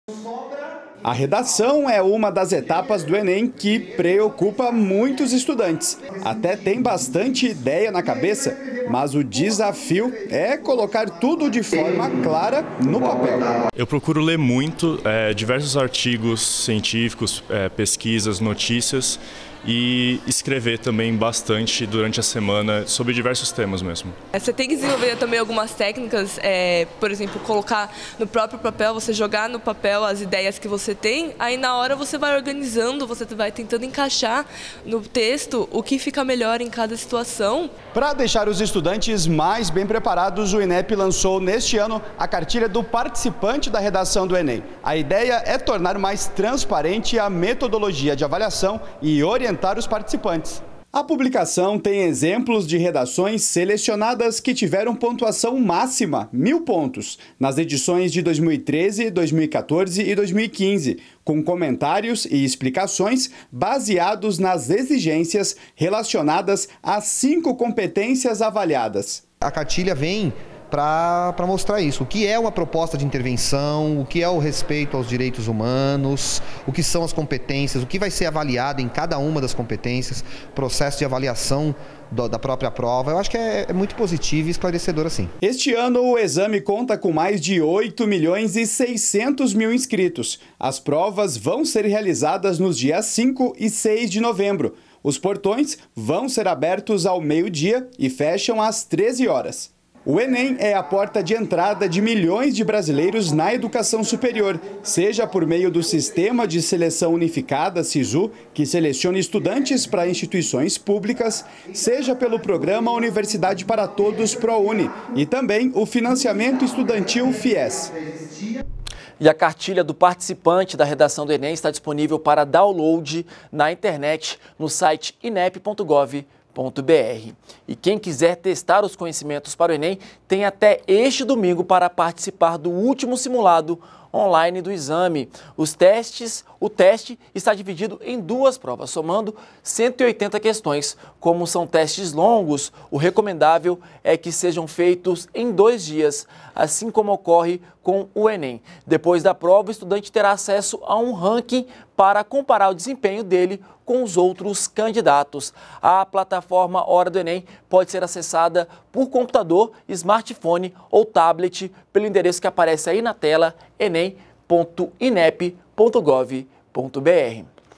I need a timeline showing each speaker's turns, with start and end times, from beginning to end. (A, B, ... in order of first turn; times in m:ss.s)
0:01.0-0:13.6 A
0:13.8-0:24.2 B
0:24.3-0:37.7 C
0:37.9-1:09.2 A
1:09.4-1:25.3 D
1:25.4-1:57.9 A
1:59.2-2:47.5 E